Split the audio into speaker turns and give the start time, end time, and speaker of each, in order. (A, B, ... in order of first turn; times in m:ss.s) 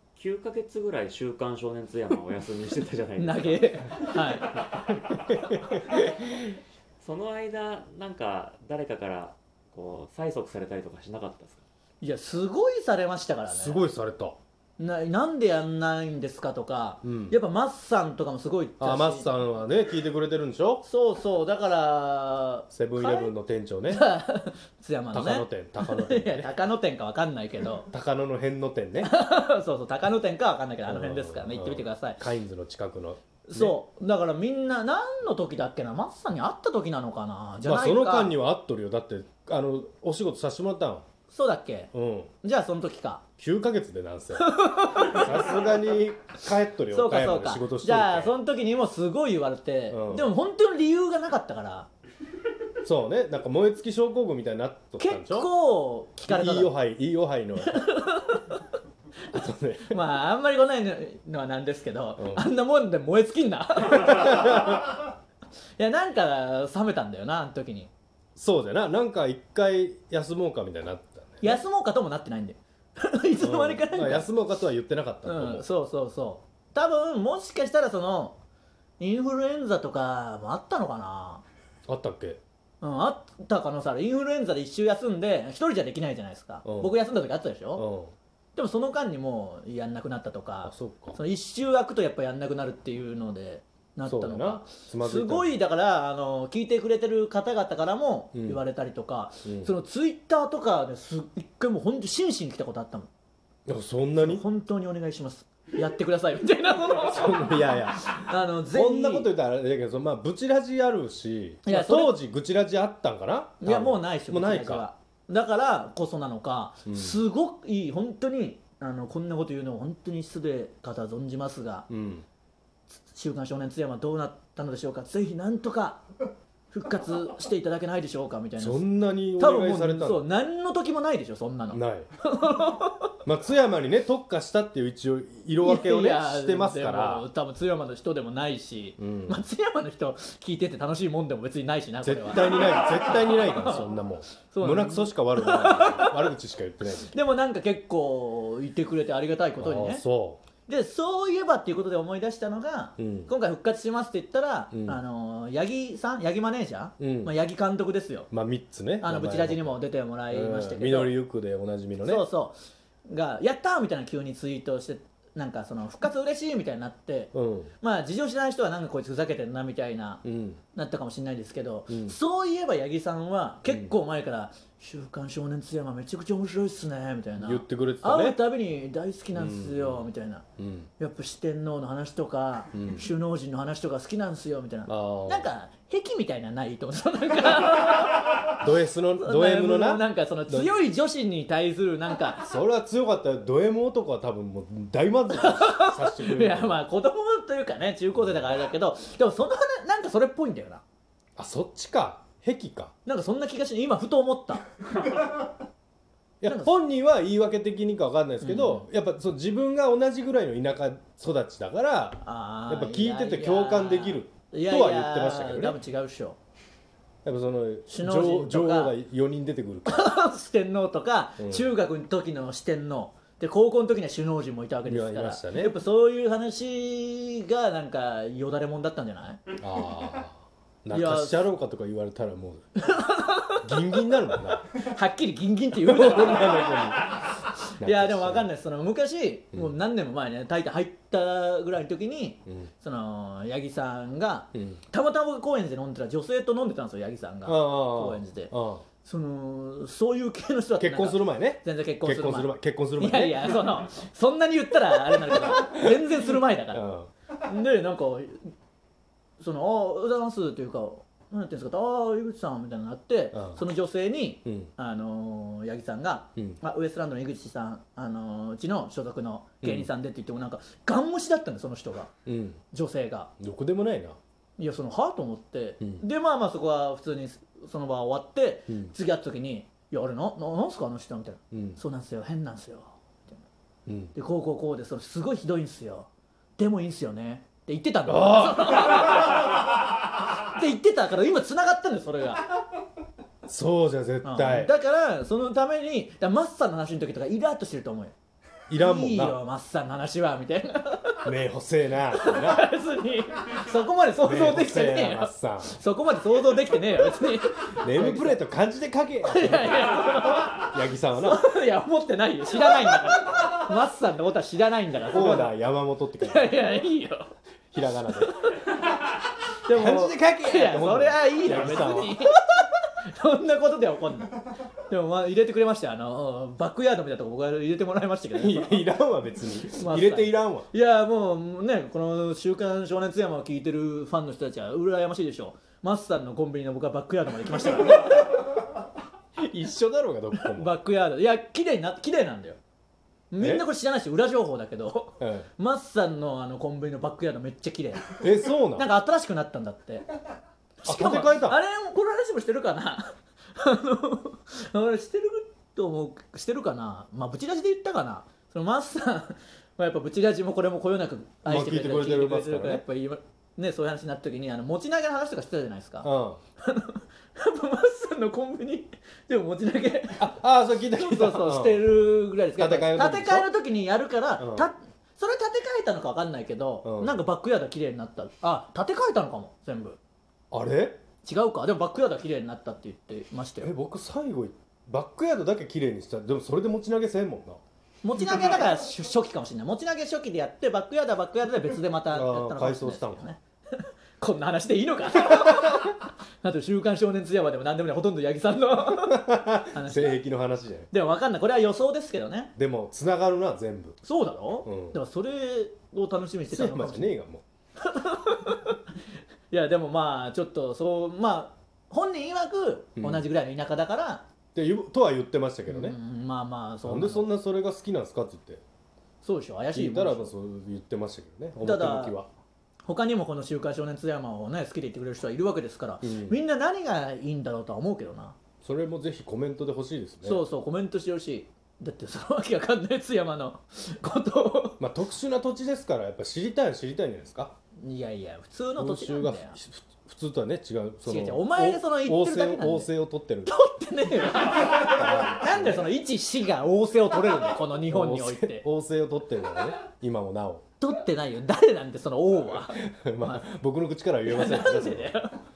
0:00.2-0:06.2 A
0:03.2-0:04.6 B
0:05.0-0:06.5 C
0:07.0-0:11.6 A
0:12.0-0:13.8 B
0:13.5-0:14.4 C
0:14.8-0:19.4 B
0:17.0-0:17.4 C
0:18.8-0:20.8 C
0:20.8-0:23.3 B
0:22.7-0:24.1 C
0:23.9-0:27.9 B
0:25.1-0:26.5 C
0:27.9-0:29.1 C
0:29.0-0:32.2 B
0:30.8-0:33.8 C
0:33.5-0:38.4 B
0:37.6-0:41.0 C
0:41.3-0:41.9 B
0:41.9-0:42.3 C
0:42.4-0:43.2 B
0:43.4-0:48.3 C
0:44.4-0:45.3 B
0:46.9-0:51.9 B
0:49.9-0:50.3 C
0:52.8-0:55.5 C
0:55.0-0:56.7 B
0:56.3-0:57.9 C
0:57.6-0:58.6 B
0:59.3-1:00.0 C
0:59.9-1:04.9 B
1:02.2-1:02.4 C
1:03.9-1:04.9 C
1:05.8-1:07.9 B
1:08.4-1:11.6 C
1:11.4-1:14.3 B
1:13.4-1:15.7 C
1:15.2-1:18.4 B
1:19.0-1:21.4 B
1:21.9-1:22.4 C
1:22.8-1:27.8 B
1:26.6-1:26.9 C
1:27.8-1:28.1 C
1:28.5-1:43.1 B
1:30.6-1:31.2 C
1:34.0-1:35.5 C
1:38.3-1:38.6 C
1:39.4-1:39.7 C
1:43.7-1:44.4 C
1:44.2-1:49.3 B
1:47.0-1:48.1 C
1:48.7-1:54.8 C
1:51.6-1:52.2 B
1:53.6-2:01.9 B
1:56.8-1:57.2 C
2:01.9-2:02.2 C
2:02.9-2:06.0 B
2:06.7-2:08.8 B
2:08.6-2:10.2 C
2:09.4-2:13.2 B
2:11.7-2:12.1 C
2:13.2-2:17.3 C
2:15.6-2:23.9 B
2:19.0-2:19.4 C
2:22.0-2:27.1 C
2:24.5-2:26.3 B
2:27.1-2:30.0 B
2:29.6-2:30.4 C
2:30.7-2:38.3 B
2:33.0-2:33.3 C
2:34.7-2:35.0 C
2:37.0-2:37.3 C
2:38.3-2:39.8 C
2:39.0-2:41.1 B
2:40.3-2:42.2 C
2:42.0-3:00.4 B
2:47.3-2:47.7 C
2:50.2-2:50.6 C
2:51.9-2:52.2 C
2:53.7-2:53.9 C
2:57.4-2:58.4 C
2:59.3-3:00.9 C
3:01.0-3:08.6 B
3:02.7-3:03.1 C
3:04.9-3:05.5 C
3:08.5-3:10.8 C
3:09.2-3:12.5 B
3:12.4-3:16.8 C
3:15.3-3:20.8 B
3:21.4-3:22.9 C
3:23.0-3:24.6 B
3:26.4-3:35.8 C
3:26.4-3:26.7 B
3:28.4-3:28.9 B
3:32.2-3:36.4 B
3:37.2-3:40.1 C
3:37.9-3:38.9 B
3:39.9-3:49.4 B
3:41.4-3:41.7 C
3:44.8-3:45.8 C
3:49.6-3:52.8 C
3:50.9-3:51.4 B
3:52.8-3:54.1 B
3:53.6-3:54.6 C
3:54.7-4:08.5 B
3:55.7-3:57.2 C
3:57.8-3:58.5 C
4:04.5-4:04.8 C
4:07.4-4:08.8 C
4:09.0-4:16.8 B
4:10.8-4:13.7 C
4:15.1-4:17.1 C
4:17.4-4:18.5 B
4:19.4-4:32.1 B
4:23.3-4:23.6 C
4:24.4-4:24.7 C
4:29.6-4:29.9 C
4:32.2-4:32.6 C
4:32.7-4:33.3 B
4:33.4-4:34.2 C
4:34.6-4:43.4 B
4:41.5-4:41.8 C
4:43.9-4:44.1 C
4:44.1-4:49.6 B
4:48.0-4:49.3 C
4:50.3-4:52.5 B
4:53.4-4:54.7 C
4:54.2-4:58.1 B
4:58.7-4:59.4 C
4:58.8-5:01.3 B
5:01.2-5:02.7 C
5:02.2-5:08.4 B
5:04.2-5:05.8 C
5:07.8-5:11.4 C
5:09.2-5:15.5 B
5:15.1-5:16.6 C
5:16.2-5:17.3 B
5:17.7-5:18.3 C
5:18.2-5:19.0 B
5:19.6-5:28.9 B
5:19.7-5:22.3 C
5:28.3-5:30.7 C
5:29.6-5:38.6 B
5:39.4-5:40.7 C
5:40.4-5:42.6 B
5:43.3-5:50.0 B
5:43.4-5:43.6 C
5:45.2-5:45.5 C
5:48.2-5:48.9 C
5:50.8-5:51.6 C
5:50.8-6:06.1 B
6:01.4-6:02.8 C
6:06.0-6:06.4 C
6:06.6-6:10.3 B
6:10.2-6:11.9 C
6:10.9-6:20.0 B
6:12.5-6:13.5 C
6:14.4-6:14.7 C
6:16.8-6:17.2 C
6:20.5-6:21.0 C
6:21.2-6:23.7 B
6:23.6-6:27.6 C
6:28.0-6:40.2 B
6:32.1-6:33.3 C
6:35.3-6:35.8 C
6:38.9-6:40.9 C
6:40.9-6:42.5 B
6:42.6-6:44.0 C
6:44.0-6:47.2 B
6:44.6-6:45.0 C
6:46.5-6:47.4 C
6:47.8-6:48.8 B
6:49.5-6:54.2 B
6:53.0-6:53.2 C
6:54.5-6:56.0 C
6:55.7-6:57.3 B
6:56.8-6:58.6 C
6:59.2-7:00.3 B
6:59.7-7:02.3 C
7:01.6-7:02.2 B
7:02.8-7:08.4 B
7:06.0-7:06.4 C
7:08.6-7:10.4 C
7:10.2-7:14.8 B
7:14.8-7:17.5 C
7:17.8-7:19.6 B
7:18.8-7:23.5 C
7:21.0-7:22.9 B
7:23.4-7:28.6 B
7:24.7-7:25.8 C
7:27.9-7:30.6 C
7:30.8-7:33.5 B
7:32.7-7:35.2 C
7:34.2-7:35.4 B